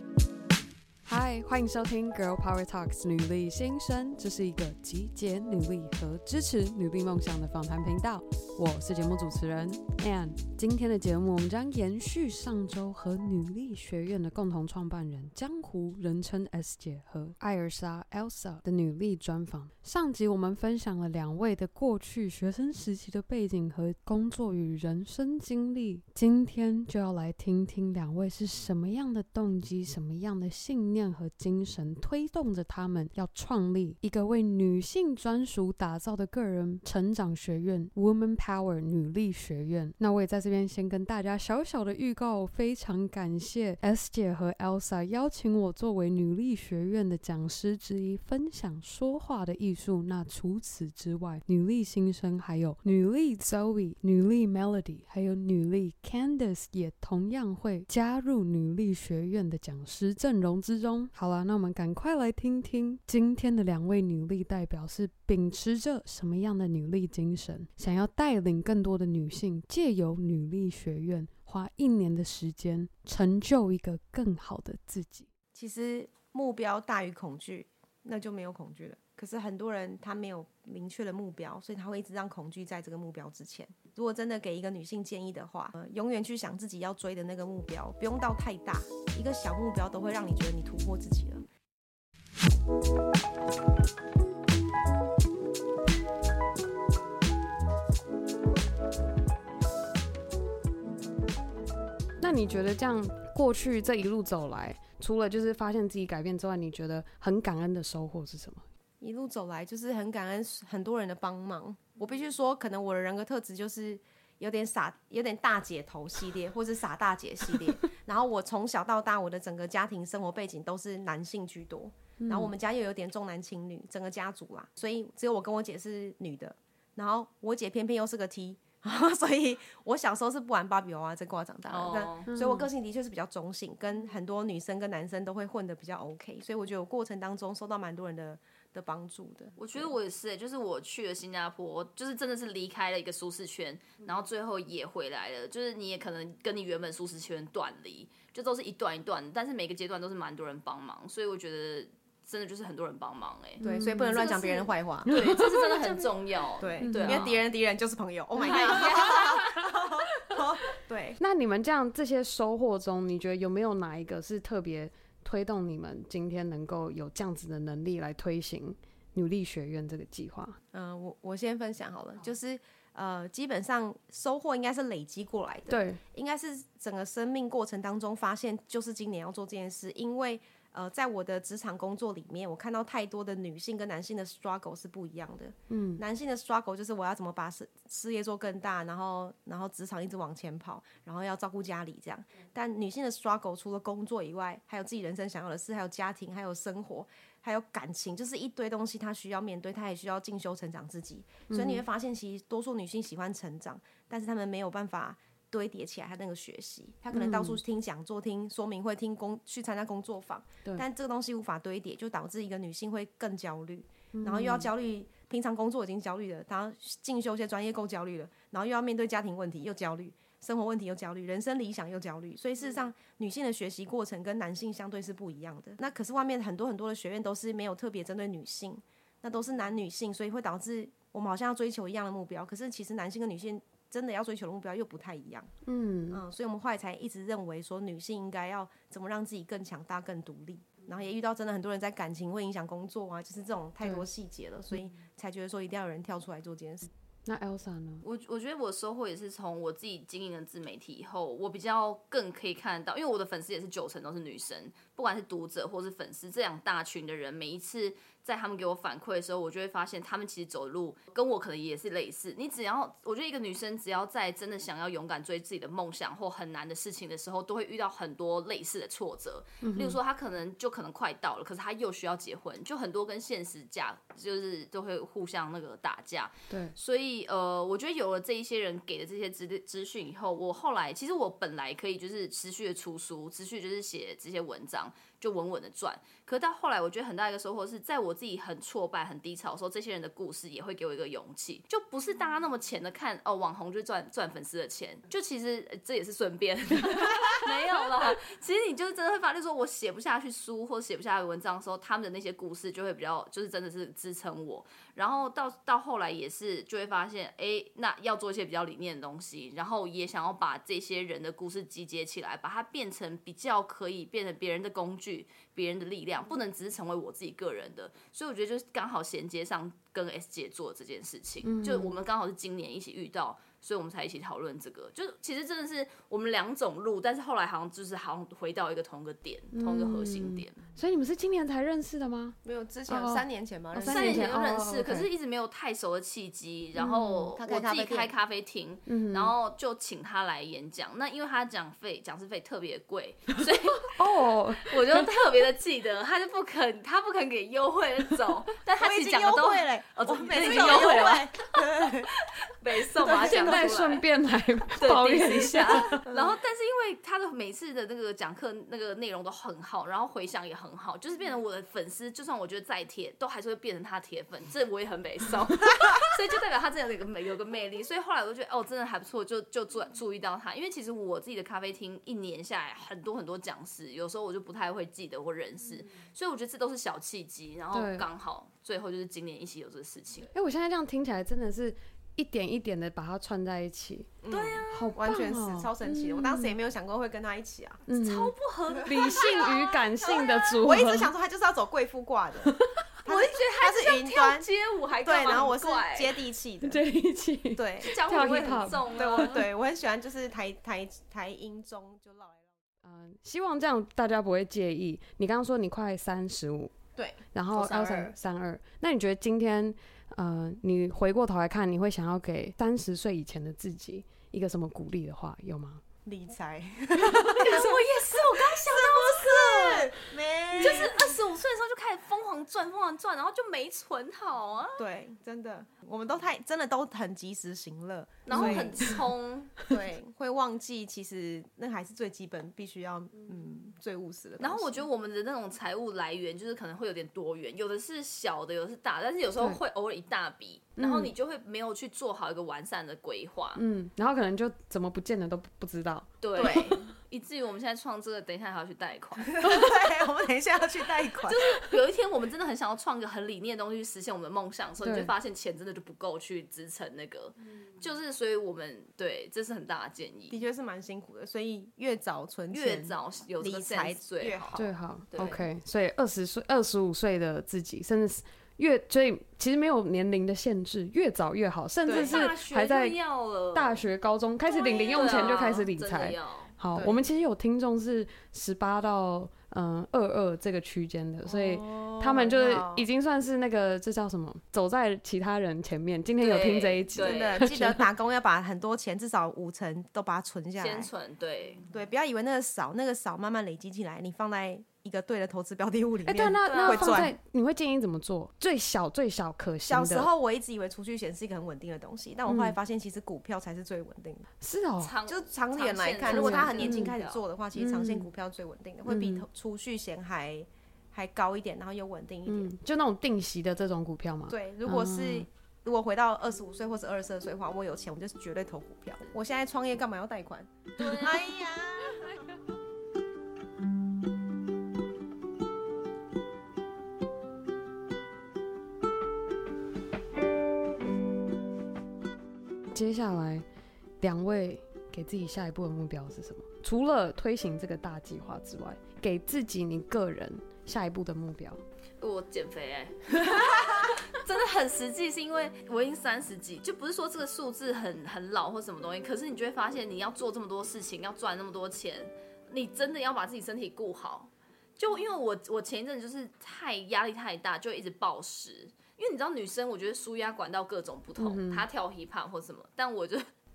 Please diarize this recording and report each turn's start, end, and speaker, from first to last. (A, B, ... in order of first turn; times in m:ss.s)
0:01.0-1:15.3 A
1:15.5-1:31.4 B
1:42.2-1:48.6 A
1:49.0-2:19.8 B
2:02.2-2:02.5 A
2:11.7-2:12.3 C
2:12.3-2:12.7 A
2:19.6-2:37.4 C
2:33.6-2:34.2 A
2:33.6-2:35.1 B
2:35.1-2:36.0 A
2:36.6-2:41.2 B
2:36.8-2:37.3 A
2:38.4-2:39.7 C
2:41.2-2:50.6 A
2:50.7-3:55.5 B
2:55.7-2:56.0 A
3:05.7-3:06.0 A
3:21.5-3:21.8 A
3:27.1-3:27.6 A
3:34.1-3:34.7 A
3:55.6-3:56.2 A
3:56.1-4:06.9 B
4:07.2-4:08.0 A
4:08.0-5:30.6 C
4:29.6-4:30.0 A
5:21.4-5:22.0 A
5:29.5-5:32.4 A
5:32.4-5:34.3 B
5:32.9-5:35.1 A
5:33.9-5:44.0 C
5:36.8-5:37.3 A
5:37.4-5:38.1 B
5:38.9-5:39.3 A
5:43.9-5:45.1 A
5:44.6-5:54.0 C
5:48.8-5:52.1 B
5:53.0-5:53.8 B
5:53.1-5:56.0 A
5:54.8-6:20.3 C
5:56.1-5:56.4 B
6:17.7-6:18.1 A
6:20.3-6:24.2 A
6:24.2-6:27.8 B
6:24.3-6:25.0 C
6:24.7-6:26.6 A
6:27.9-6:28.3 A
6:28.0-6:30.6 C
6:28.8-6:31.1 A
6:30.2-6:34.5 B
6:33.0-6:36.2 C
6:35.0-6:36.8 B
6:36.6-6:39.5 A
6:37.6-6:37.9 B
6:37.8-6:39.4 C
6:38.9-6:42.5 B
6:42.8-6:46.7 A
6:47.0-6:48.2 B
6:47.3-6:55.8 A
6:56.0-6:57.7 B
6:57.1-6:57.5 A
6:57.2-7:00.0 C
6:58.3-7:01.1 B
7:00.6-7:04.8 C
7:04.8-7:08.9 B
7:08.3-7:09.6 C
7:08.4-7:09.0 A
7:09.6-7:14.9 B
7:14.4-7:23.6 C
7:20.8-7:21.1 A
7:23.6-7:26.8 A
7:26.2-7:29.6 C
7:26.4-7:26.7 B
7:29.3-7:31.4 B
7:29.4-7:29.7 A
7:31.2-7:40.4 C
7:34.8-7:35.1 A
7:40.3-7:44.7 B
7:42.5-7:45.4 C
7:44.6-7:53.0 A
7:51.8-7:53.8 C
7:51.9-7:52.3 B
7:53.5-8:07.8 A
7:54.5-7:56.6 C
7:54.6-7:55.2 B
8:01.3-8:02.9 B
8:06.2-8:07.5 C
8:07.0-8:10.9 B
8:10.6-8:11.7 C
8:11.7-8:17.1 B
8:16.1-8:20.1 A
8:16.4-8:17.1 C
8:19.7-8:24.3 B
8:22.3-8:22.6 A
8:24.4-8:25.0 A
8:24.8-8:27.2 C
8:25.1-8:32.5 B
8:26.1-8:27.0 A
8:27.6-8:28.1 A
8:28.9-8:29.3 A
8:32.3-8:35.3 A
8:34.3-8:42.2 B
8:40.8-8:41.4 C
8:52.7-8:53.4 A
8:54.0-9:01.6 A
9:02.0-9:23.3 C
9:21.2-9:21.7 A